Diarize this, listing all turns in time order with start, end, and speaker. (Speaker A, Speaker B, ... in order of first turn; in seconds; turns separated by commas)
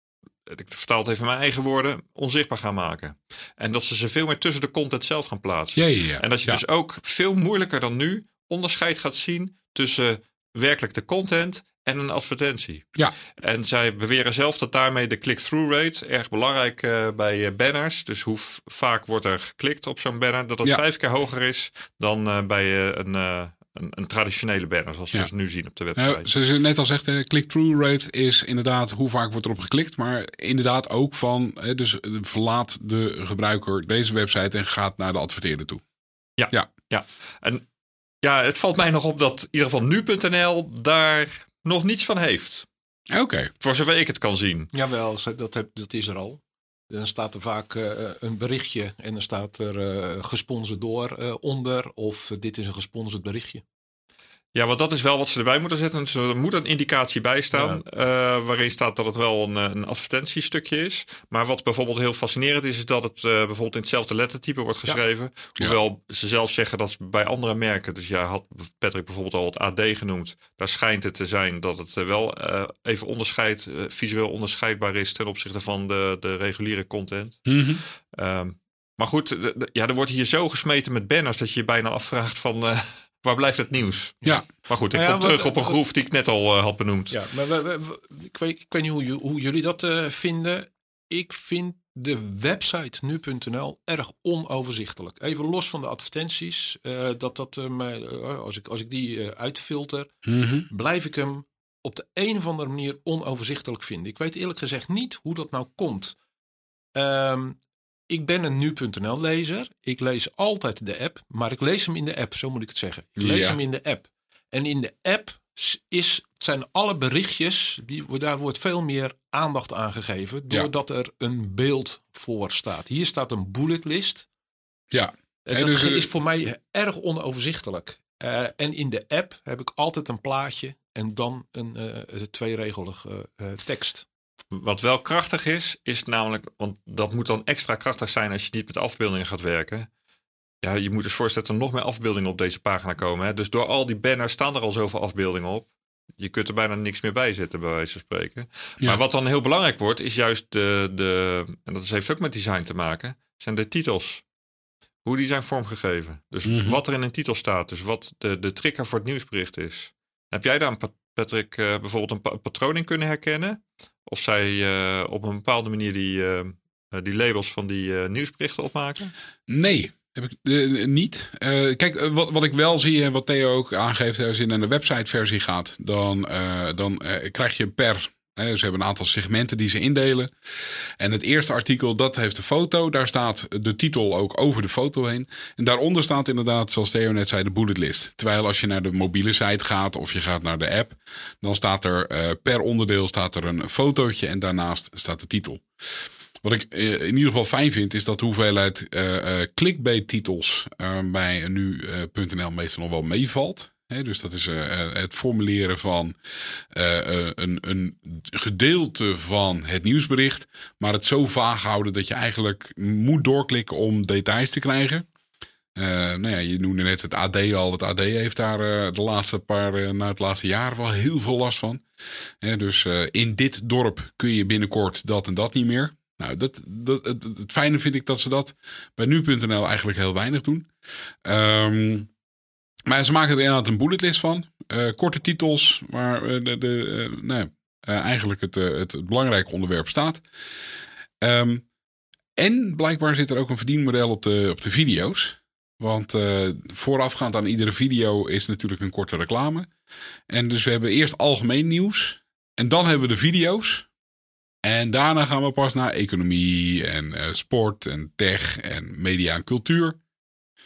Speaker A: 0.5-26.3, Speaker B: 5.8-6.6, Speaker B: 26.0-35.8, Speaker A: 36.4-37.6, Speaker A: 38.2-42.7, Speaker B: 43.1-43.5, Speaker A: 43.6-44.7, Speaker C: 44.7-53.6, Speaker A: 54.5-77.6, Speaker C: 57.5-57.8, Speaker B: 77.5-77.8, Speaker A: 78.1-87.2, Speaker C: 84.9-85.7, Speaker C: 87.1-100.2, Speaker B: 100.2-100.6, Speaker C: 100.7-106.2, Speaker C: 106.9-107.6, Speaker C: 108.1-124.3, Speaker B: 113.2-113.6, Speaker B: 124.9-126.1, Speaker C: 125.4-134.1, Speaker A: 134.5-139.9, Speaker A: 140.6-154.2, Speaker A: 155.0-169.1, Speaker B: 156.4-156.8, Speaker B: 169.5-195.6, Speaker B: 196.4-206.1, Speaker B: 206.7-215.1, Speaker B: 215.7-221.8, Speaker B: 222.4-230.7, Speaker B: 231.2-232.1, Speaker B: 232.9-240.2, Speaker B: 241.2-241.6, Speaker B: 242.4-249.7, Speaker B: 250.3-253.9, Speaker B: 254.6-260.0